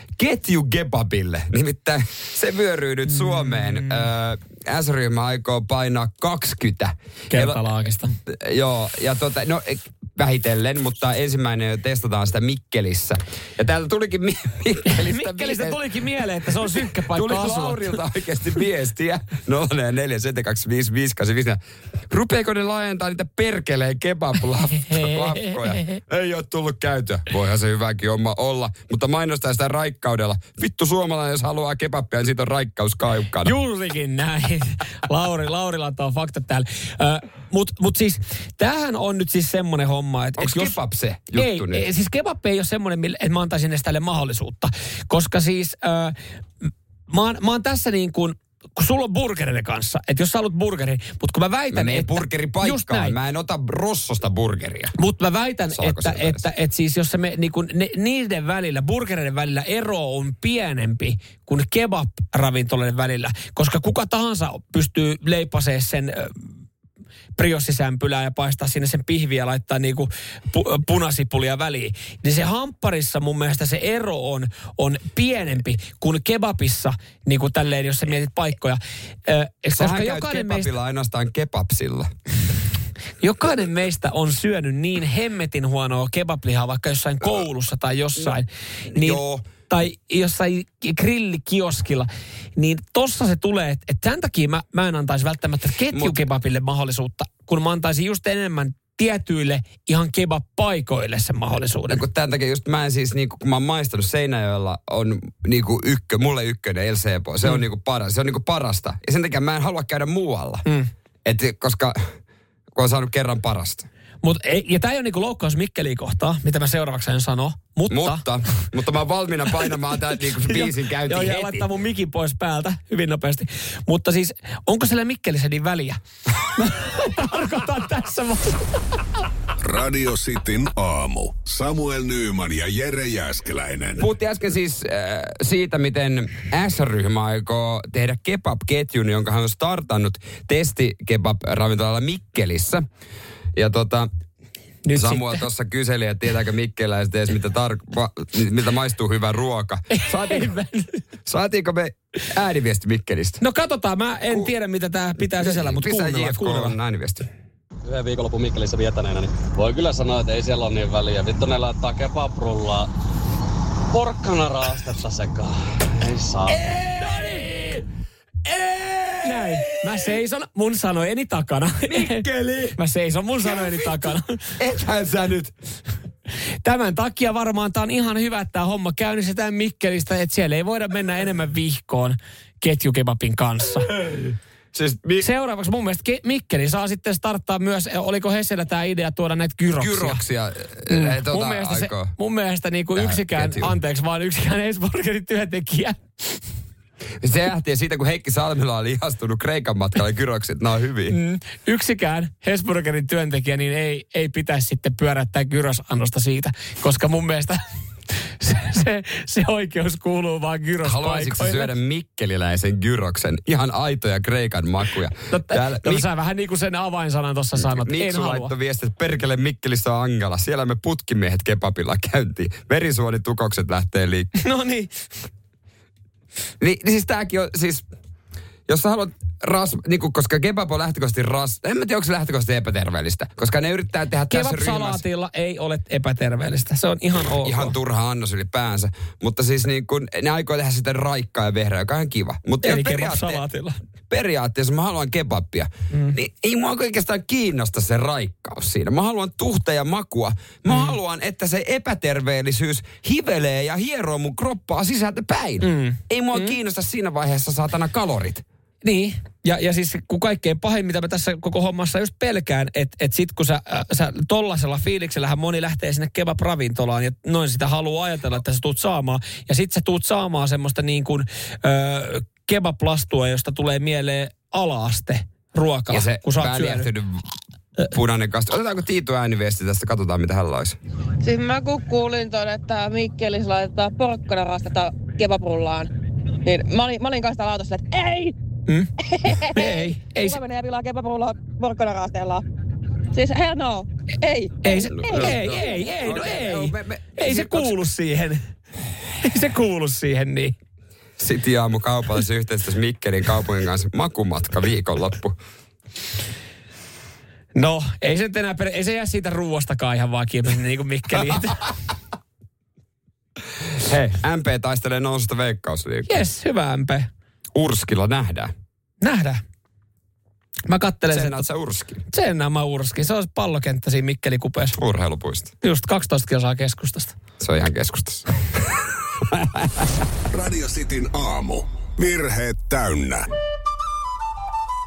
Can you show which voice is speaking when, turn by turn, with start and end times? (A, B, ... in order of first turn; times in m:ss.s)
0:00.2-0:07.6 A
0:03.1-0:04.0 B
0:07.3-0:08.1 B
0:08.2-0:15.8 A
0:14.8-0:18.0 B
0:16.4-0:33.5 A
0:24.9-0:26.0 B
0:33.4-0:40.7 B
0:40.4-0:41.8 A
0:41.3-0:53.1 B
0:51.7-0:54.9 A
0:55.0-1:06.5 B
0:55.7-0:56.4 A
1:07.4-1:20.7 B
1:19.7-1:22.1 A
1:23.2-1:42.0 B
1:28.9-1:29.5 A
1:35.9-1:36.3 A
1:41.9-1:50.6 A
1:51.2-1:52.1 A
1:52.7-1:53.9 A
1:54.2-1:58.2 B
1:57.9-2:01.7 A
2:00.1-2:06.0 B
2:06.5-2:09.0 B
2:09.6-2:14.0 C
2:14.0-2:22.8 A
2:23.5-2:24.1 A
2:24.8-2:25.4 B
2:24.9-2:30.6 A
2:29.9-2:31.0 B
2:31.2-2:33.4 A
2:33.4-2:36.8 B
2:35.4-2:37.3 A
2:37.9-2:42.9 D
2:43.9-2:46.7 D
2:46.6-2:47.8 A
2:46.8-2:47.8 B
2:48.4-2:50.1 A
2:49.2-2:54.5 B
2:51.9-2:52.8 A
2:53.4-2:55.5 A
2:56.6-3:03.9 B
3:04.0-3:05.3 A
3:05.2-3:10.2 B
3:09.8-3:12.1 A
3:10.9-3:16.4 B
3:13.0-3:13.8 A
3:17.2-3:21.2 A
3:21.1-3:27.6 B
3:28.4-3:31.7 B
3:30.8-3:36.1 A
3:35.3-3:38.5 B
3:37.6-3:44.3 A
3:44.4-3:45.1 B
3:46.6-3:47.9 A
3:48.7-3:55.0 A
3:54.3-3:57.7 B
3:57.4-4:03.4 A
4:02.6-4:03.8 B
4:04.1-4:18.4 A
4:05.9-4:06.2 B
4:10.7-4:10.9 B
4:15.6-4:16.5 B
4:18.8-4:36.9 B
4:35.9-4:37.2 A
4:37.9-4:40.8 A
4:41.2-4:45.9 E
4:46.4-4:48.3 E
4:49.1-4:52.4 E
4:49.5-4:50.4 B
4:53.1-4:55.9 E
4:54.6-4:58.4 B
4:54.9-4:57.8 A
4:59.2-5:00.5 B
5:01.2-5:05.4 A
5:07.5-5:11.6 B
5:13.8-5:16.2 A
5:16.1-5:17.1 B
5:17.5-5:18.5 A
5:19.0-5:19.4 B
5:20.7-5:21.5 B
5:21.1-5:22.0 A
5:22.1-5:24.8 B
5:24.7-5:25.5 A
5:25.6-5:27.1 B
5:27.4-5:30.0 A
5:30.3-5:33.2 C